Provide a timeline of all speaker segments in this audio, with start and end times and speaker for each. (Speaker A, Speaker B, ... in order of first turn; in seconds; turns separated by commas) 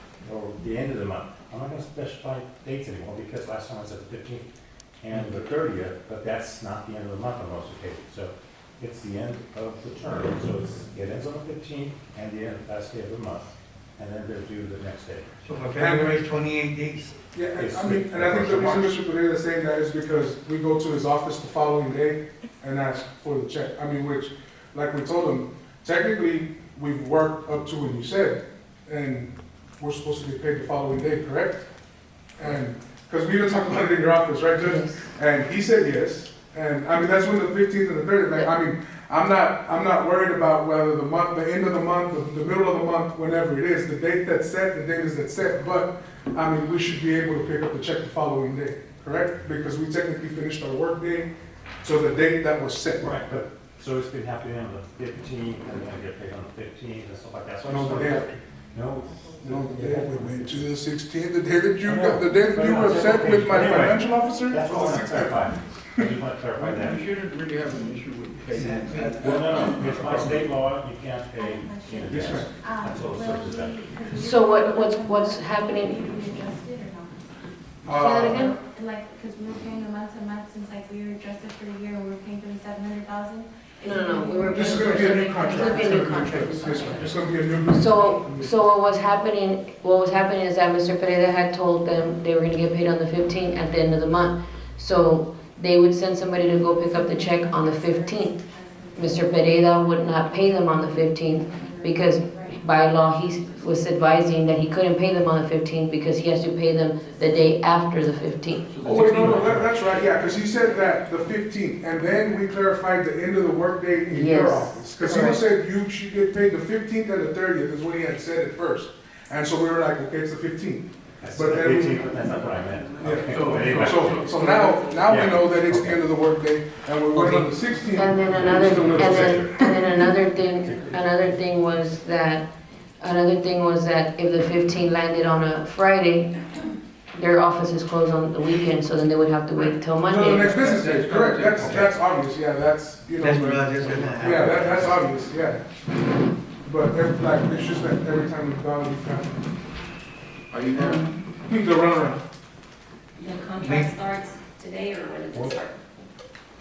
Speaker A: 0.2-4.5, Speaker A: 5.0-15.3, Speaker B: 15.4-17.2, Speaker C: 15.8-16.1, Speaker C: 17.3-31.7, Speaker A: 17.5-19.0, Speaker C: 32.4-51.3, Speaker D: 34.6-35.1, Speaker C: 51.8-53.1, Speaker A: 53.0-60.7, Speaker C: 57.7-58.4, Speaker C: 59.4-66.1, Speaker A: 61.8-67.1, Speaker E: 63.7-64.7, Speaker F: 66.6-70.4, Speaker B: 68.5-69.3, Speaker A: 69.2-73.8, Speaker E: 71.3-77.2, Speaker C: 72.1-72.5, Speaker D: 74.1-76.0, Speaker C: 77.8-78.5, Speaker D: 77.9-78.5, Speaker E: 78.3-86.0, Speaker D: 83.8-98.4, Speaker C: 84.5-88.6, Speaker E: 96.7-102.7, Speaker D: 99.0-109.3, Speaker F: 108.7-110.0, Speaker C: 108.8-122.1, Speaker D: 114.1-115.4, Speaker A: 121.2-124.4, Speaker C: 123.0-129.6, Speaker G: 123.0-125.1, Speaker F: 123.2-124.7, Speaker A: 125.1-126.1, Speaker A: 127.1-127.5, Speaker D: 127.9-132.5, Speaker A: 128.3-129.8, Speaker A: 130.6-131.4, Speaker D: 133.0-136.4, Speaker D: 137.1-140.8, Speaker C: 140.0-145.6, Speaker F: 140.4-141.9, Speaker A: 141.6-141.9, Speaker B: 143.1-144.9, Speaker A: 144.1-144.9, Speaker C: 146.6-149.4, Speaker F: 150.5-151.0, Speaker C: 150.7-152.2, Speaker B: 150.8-151.1, Speaker G: 153.2-155.8, Speaker B: 153.6-153.9, Speaker A: 155.3-155.6